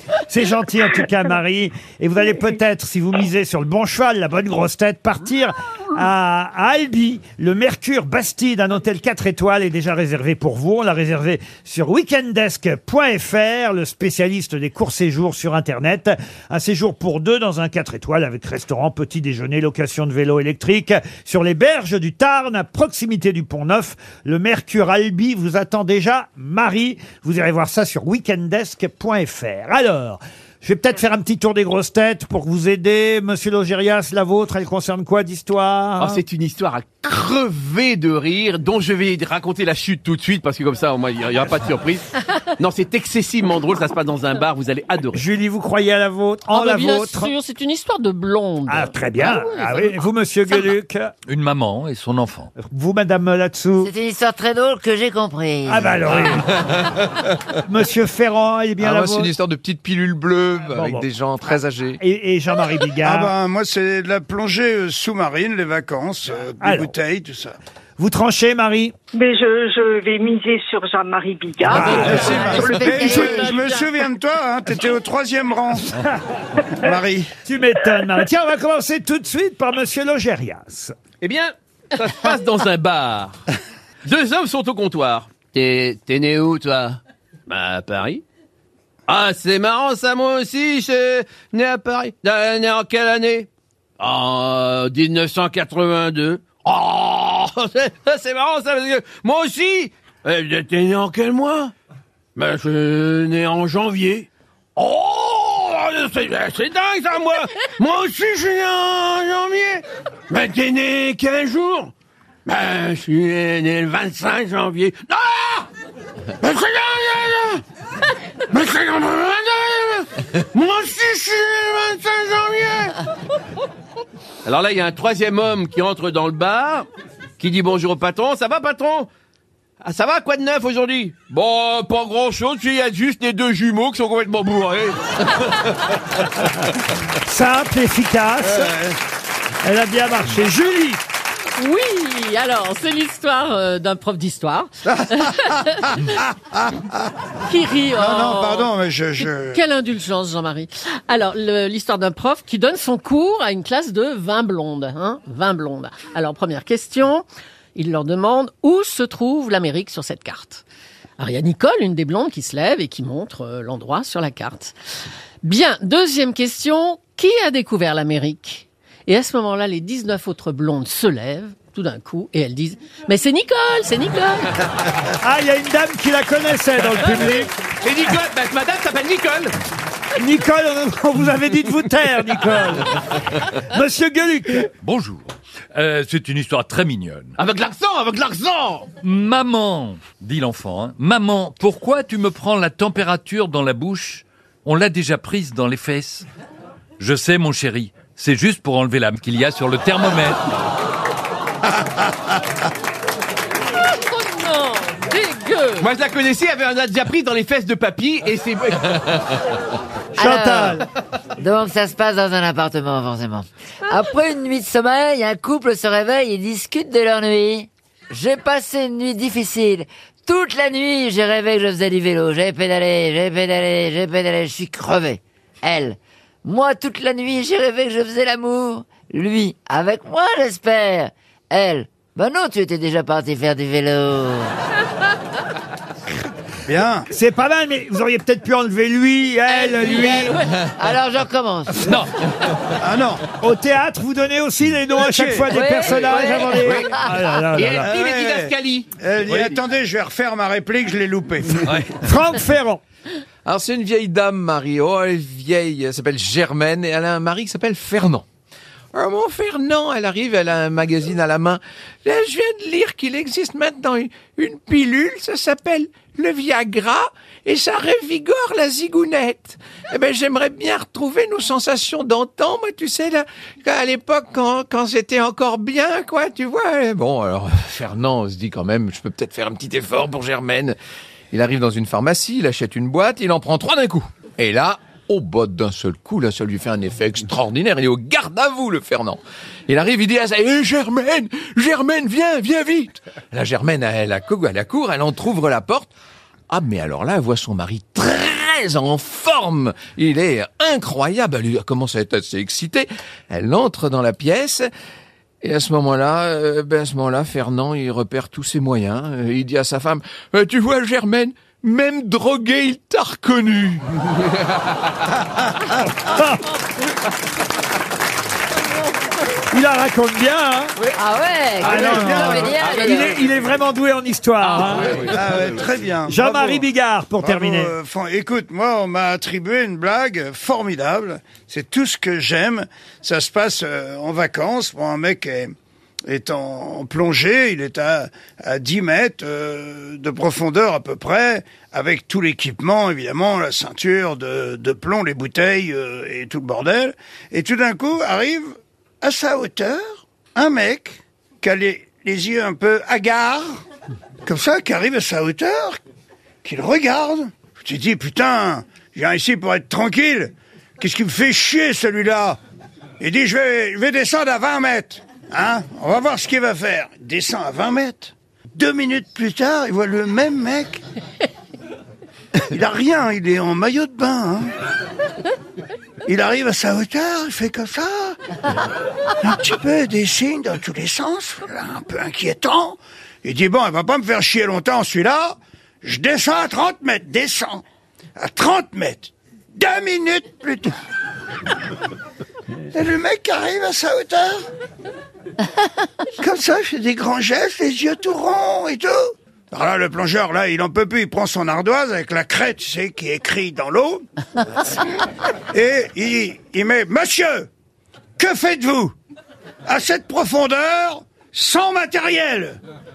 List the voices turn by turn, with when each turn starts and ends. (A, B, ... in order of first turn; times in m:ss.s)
0:00.3-0:36.2 A
0:36.0-0:42.1 B
0:42.6-0:45.2 B
0:45.1-0:47.3 A
0:46.5-0:50.0 C
0:48.7-0:51.1 A
0:51.3-0:52.5 D
0:52.6-0:53.9 A
0:53.8-0:56.3 E
0:55.7-0:56.5 A
0:57.7-0:59.3 A
0:58.8-1:02.0 F
1:00.7-1:01.1 A
1:02.0-1:03.3 A
1:03.0-1:07.6 G
1:06.6-1:06.9 A
1:08.0-1:09.0 A
1:09.1-1:13.2 H
1:11.6-1:12.5 A
1:11.8-1:15.9 G
1:11.8-1:13.6 E
1:11.9-1:13.9 C
1:16.8-1:17.4 G
1:17.4-1:20.9 A
1:21.2-1:23.4 B
1:24.0-1:28.2 B
1:29.1-1:33.5 B
1:34.0-1:41.7 B
1:42.4-1:51.9 B
1:52.5-1:55.7 B
1:56.4-1:57.6 B
1:58.5-2:02.9 B
2:04.4-2:06.9 B
2:07.4-2:09.1 B
2:09.8-2:15.8 B
2:17.2-2:18.7 A
2:18.6-2:19.0 G
2:19.6-2:21.0 A
2:21.6-2:26.0 C
2:24.9-2:27.0 G
2:27.5-2:40.6 C
2:27.9-2:29.6 G
2:41.2-2:44.8 C
2:45.4-2:54.5 C
2:55.2-2:57.5 A
2:57.8-2:59.5 B
3:00.2-3:03.0 A
3:03.7-3:04.7 A
3:04.8-3:07.3 D
3:07.4-3:08.9 B
3:09.0-3:16.2 D
3:17.0-3:20.5 D
3:23.9-3:25.9 C
3:25.8-3:29.3 B
3:30.2-3:30.8 E
3:30.2-3:30.9 A
3:31.4-3:54.5 E
3:56.7-3:57.1 G
3:57.1-4:00.4 A
3:59.7-4:00.3 C
3:59.9-4:00.3 E
4:00.8-4:02.0 E
4:02.8-4:03.3 G
4:03.4-4:07.9 A
4:05.0-4:06.3 G
4:05.6-4:06.7 E
4:06.0-4:07.0 B
4:07.5-4:08.9 B
4:07.7-4:11.8 G
4:12.0-4:12.8 A
4:13.4-4:18.2 F
4:18.9-4:40.8 F
4:41.3-4:55.9 F
4:56.5-5:04.7 F
5:05.4-5:13.9 F
5:16.0-5:16.4 A
5:19.5-5:20.8 A
5:21.0-5:23.2 E
5:21.6-5:25.1 A
5:21.6-5:22.6 G
5:22.6-5:23.3 B
5:24.5-5:25.2 B
5:25.1-5:26.7 G
5:26.1-5:27.7 A
5:27.2-5:35.5 G
5:36.1-5:53.6 G
5:54.2-5:55.8 G
5:56.4-6:02.4 G
6:03.0-6:10.8 G
6:12.5-6:14.5 G
6:16.1-6:18.2 G
6:19.2-6:27.6 G
6:28.2-6:30.7 G
6:32.7-6:34.4 G
6:36.2-6:44.0 G
6:45.5-6:47.5 G
6:48.2-6:48.9 G
6:49.6-6:52.6 G